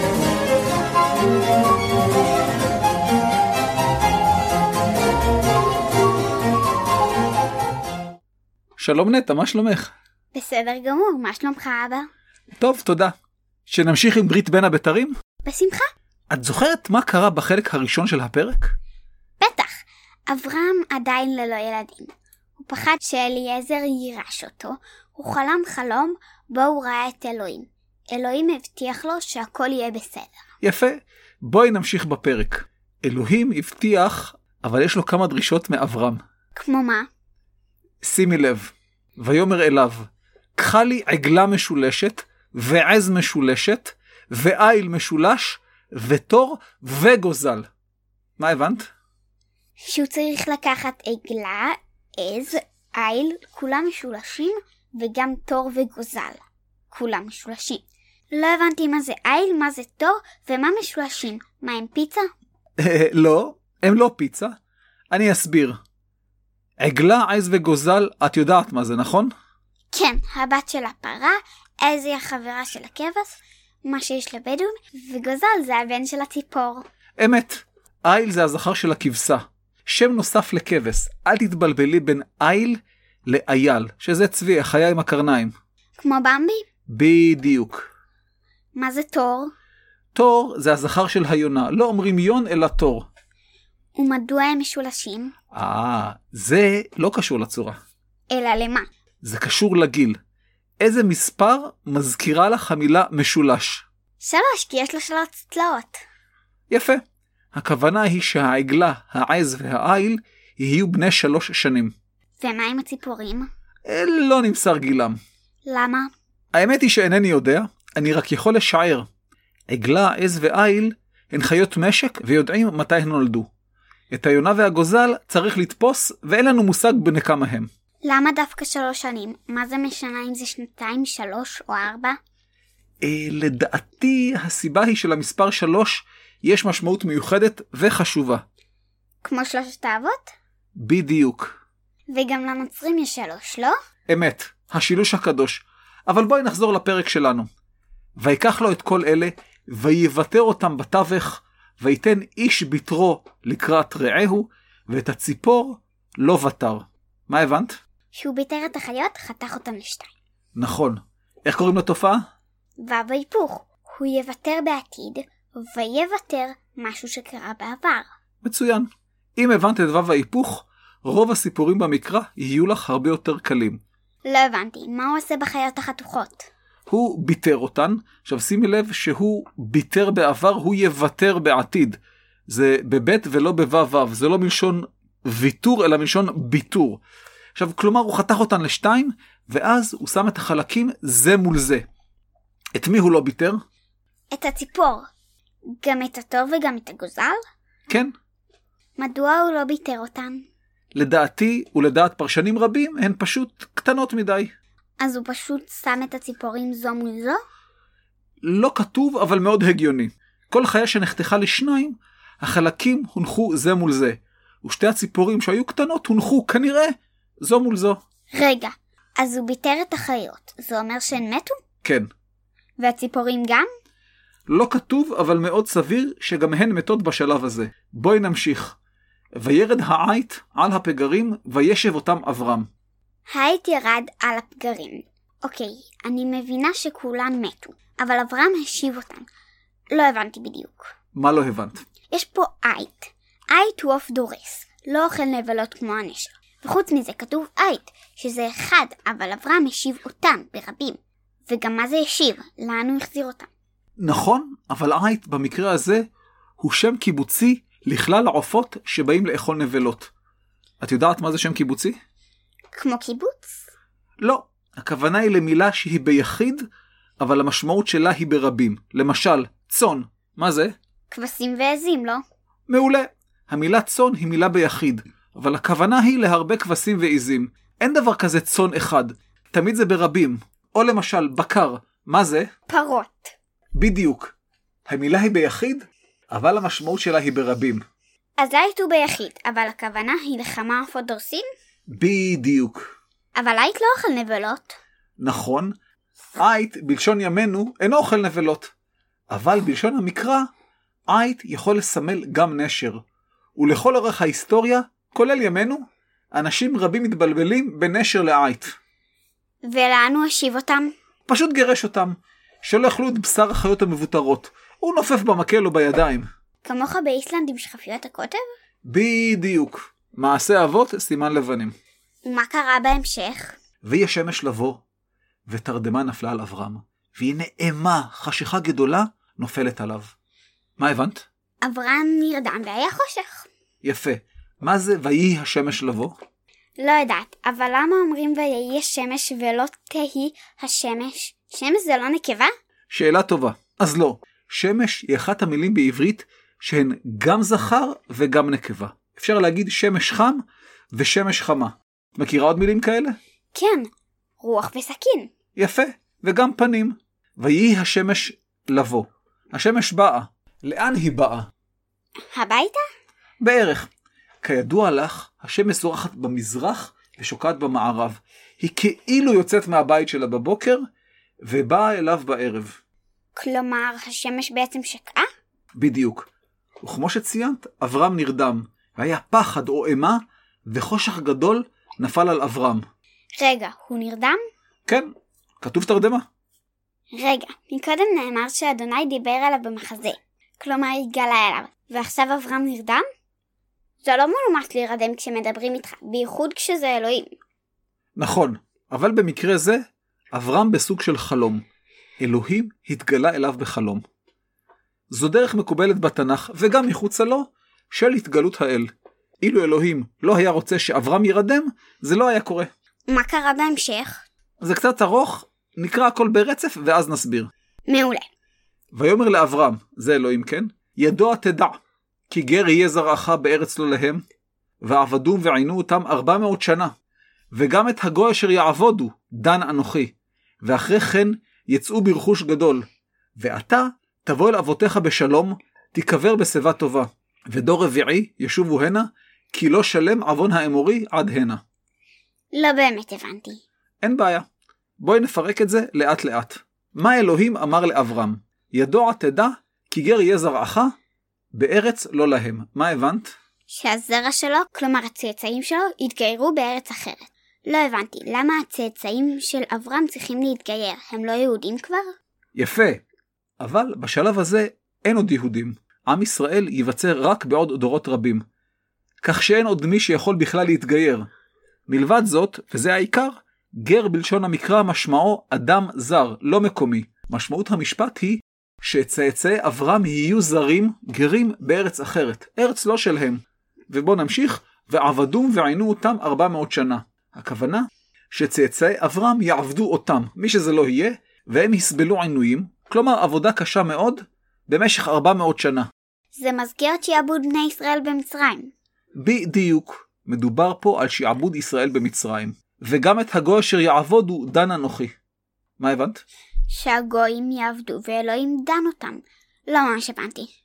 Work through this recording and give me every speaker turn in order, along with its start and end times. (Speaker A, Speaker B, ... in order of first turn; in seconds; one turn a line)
Speaker A: 8.8-9.9
Speaker B: 10.3-12.1
Speaker A: 12.6-13.1
Speaker A: 13.7-15.2
Speaker B: 15.4-15.9
Speaker A: 16.3-18.7
Speaker B: 19.4-19.7
Speaker B: 20.3-30.4
Speaker A: 30.6-36.2
Speaker B: 36.5-37.1
Speaker A: 38.0-47.7
Speaker A: 48.4-48.9
Speaker B: 49.9-62.3
Speaker A: 62.8-64.5
Speaker A: 65.1-65.8
Speaker A: 66.8-69.3
Speaker B: 69.9-76.8
Speaker A: 77.2-85.5
Speaker B: 86.0-86.6
Speaker A: 86.9-87.8
Speaker B: 88.8-89.5
Speaker A: 90.1-93.1
Speaker B: 94.0-95.3
Speaker A: 95.5-97.8
Speaker B: 98.3-98.9
Speaker A: 99.2-100.2
Speaker A: 100.8-103.8
Speaker B: 104.2-106.0
Speaker A: 106.7-107.0
Speaker A: 107.5-111.9
Speaker B: 112.4-113.5
Speaker A: 113.9-115.2
Speaker B: 115.7-116.1
Speaker A: 116.5-119.1
Speaker A: 119.7-123.5
Speaker A: 124.1-127.7
Speaker B: 128.0-132.2
Speaker A: 133.0-138.4
Speaker B: 139.2-140.3
Speaker A: 140.8-141.5
Speaker B: 142.1-143.8
Speaker A: 144.1-147.5
Speaker A: 148.2-157.8
Speaker B: 158.1-160.1
Speaker A: 160.5-162.2
Speaker B: 162.8-168.1
Speaker A: 168.4-173.8
Speaker B: 174.2-176.5
Speaker A: 176.9-187.0
Speaker A: 187.6-191.8
Speaker A: 192.8-193.6
Speaker B: 194.3-195.0
Speaker B: 195.8-197.4
Speaker A: 197.9-198.1
Speaker B: 199.0-200.4
Speaker A: 200.9-204.5
Speaker B: 205.0-207.4
Speaker A: 208.4-218.0
Speaker B: 218.3-221.6
Speaker B: 222.8-223.7
Speaker A: 224.5-228.8
Speaker A: 229.4-232.7
Speaker B: 233.3-239.3
Speaker B: 239.9-240.9
Speaker A: 241.2-241.8
Speaker B: 242.1-253.5
Speaker A: 254.0-256.0
Speaker A: 256.6-260.1
Speaker A: 260.8-262.0
Speaker B: 262.7-263.7
Speaker A: 264.2-266.6
Speaker A: 267.2-270.7
Speaker B: 271.1-272.2
Speaker A: 272.7-282.5
Speaker B: 282.7-283.3
Speaker A: 283.8-284.3
Speaker A: 284.9-287.8
Speaker B: 288.4-291.4
Speaker A: 291.9-292.8
Speaker B: 293.4-294.8
Speaker A: 295.2-295.7
Speaker A: 296.4-298.7
Speaker A: 299.3-300.5
Speaker A: 301.1-303.0
Speaker A: 303.6-305.8
Speaker A: 306.4-308.8
Speaker B: 309.7-310.9
Speaker A: 311.3-316.3
Speaker B: 316.6-318.4
Speaker A: 318.9-321.7
Speaker B: 322.2-323.6
Speaker A: 323.8-324.8
Speaker A: 325.5-330.1
Speaker A: 330.8-331.2
Speaker B: 331.6-333.5
Speaker A: 333.8-336.1
Speaker B: 336.8-342.5
Speaker A: 342.9-350.4
Speaker A: 350.9-353.2
Speaker B: 353.5-353.9
Speaker B: 354.4-355.3
Speaker A: 355.6-361.5
Speaker B: 362.3-362.8
Speaker A: 363.4-363.9
Speaker A: 364.4-370.8
Speaker A: 371.4-372.8
Speaker B: 373.4-375.3
Speaker A: 375.8-376.3
Speaker A: 376.8-382.8
Speaker B: 383.4-384.4
Speaker A: 384.9-386.2
Speaker B: 387.1-393.0
Speaker B: 394.0-397.3
Speaker A: 398.2-401.6
Speaker A: 402.2-404.0
Speaker A: 405.1-408.9
Speaker A: 409.4-412.7
Speaker B: 413.1-414.2
Speaker A: 414.6-417.5
Speaker B: 417.9-418.3
Speaker A: 418.9-421.8
Speaker A: 422.3-424.2
Speaker A: 424.8-426.9
Speaker A: 427.5-432.9
Speaker A: 433.4-441.6
Speaker B: 442.5-443.6
Speaker A: 444.0-444.4
Speaker A: 445.0-450.9
Speaker A: 451.5-453.4
Speaker B: 453.7-462.1
Speaker A: 462.6-463.0
Speaker A: 463.6-468.4
Speaker A: 469.2-471.3
Speaker A: 471.9-495.9
Speaker B: 496.3-498.7
Speaker A: 499.2-505.1
Speaker A: 505.8-506.2
Speaker B: 506.7-510.5